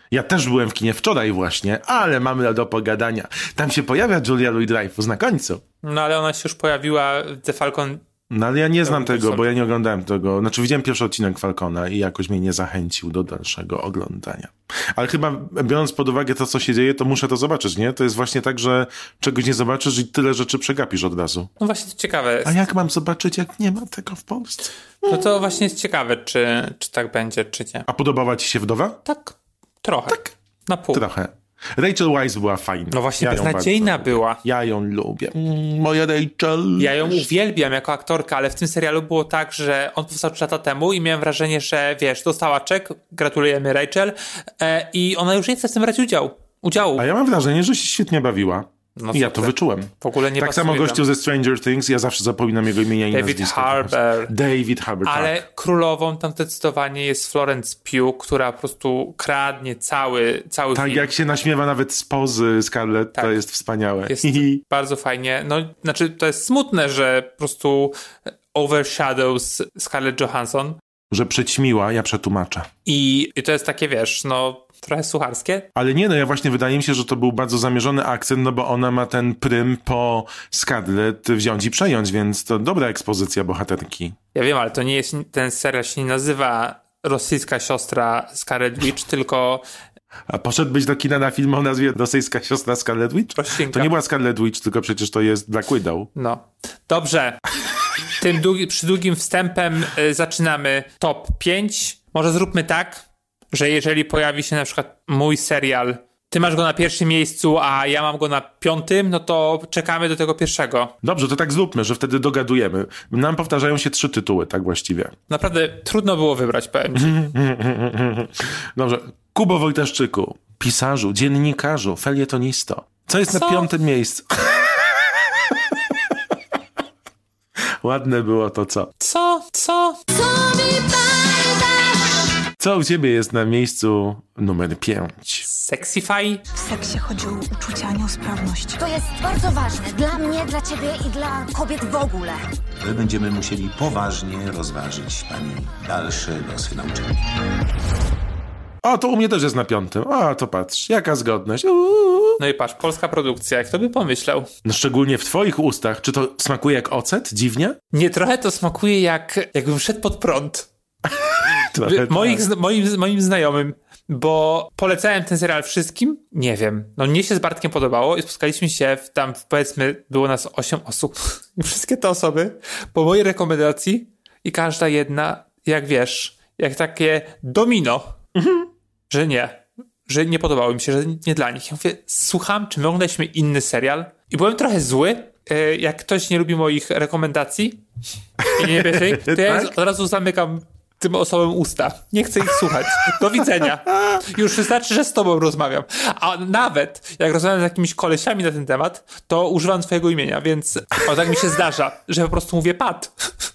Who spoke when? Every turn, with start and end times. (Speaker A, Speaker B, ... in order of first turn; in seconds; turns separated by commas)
Speaker A: 0.1-5.6, Speaker B: 5.8-8.1, Speaker A: 8.3-21.5, Speaker B: 8.8-9.5, Speaker B: 21.6-22.5, Speaker A: 22.4-25.2, Speaker B: 25.0-27.9, Speaker A: 27.9-29.0, Speaker B: 29.1-31.0, Speaker A: 30.9-37.2, Speaker B: 32.9-34.4, Speaker B: 36.8-47.0, Speaker A: 47.0-55.4, Speaker B: 49.0-51.0, Speaker B: 53.1-54.3, Speaker B: 55.0-61.1, Speaker A: 60.8-64.6, Speaker B: 63.2-63.4, Speaker B: 64.1-68.0, Speaker B: 68.5-70.8, Speaker A: 71.1-72.7, Speaker B: 72.9-75.7, Speaker A: 75.8-84.2, Speaker B: 84.3-89.6, Speaker A: 90.3-96.1, Speaker B: 93.4-93.9, Speaker B: 96.2-97.4, Speaker B: 98.1-110.9, Speaker A: 111.0-115.2, Speaker B: 115.3-117.3, Speaker A: 117.0-124.6, Speaker B: 123.3-123.7, Speaker A: 127.8-128.9, Speaker B: 129.0-130.0, Speaker C: 130.1-131.9, Speaker A: 132.6-135.4, Speaker B: 135.5-136.4, Speaker D: 136.6-138.8, Speaker C: 138.8-142.4, Speaker E: 142.8-147.2, Speaker A: 148.8-152.4, Speaker B: 152.4-154.5, Speaker A: 154.6-157.8, Speaker B: 157.9-160.7, Speaker A: 161.4-162.5, Speaker B: 161.8-178.2, Speaker A: 178.4-178.7, Speaker B: 179.1-187.8, Speaker A: 188.4-189.7, Speaker B: 188.6-203.3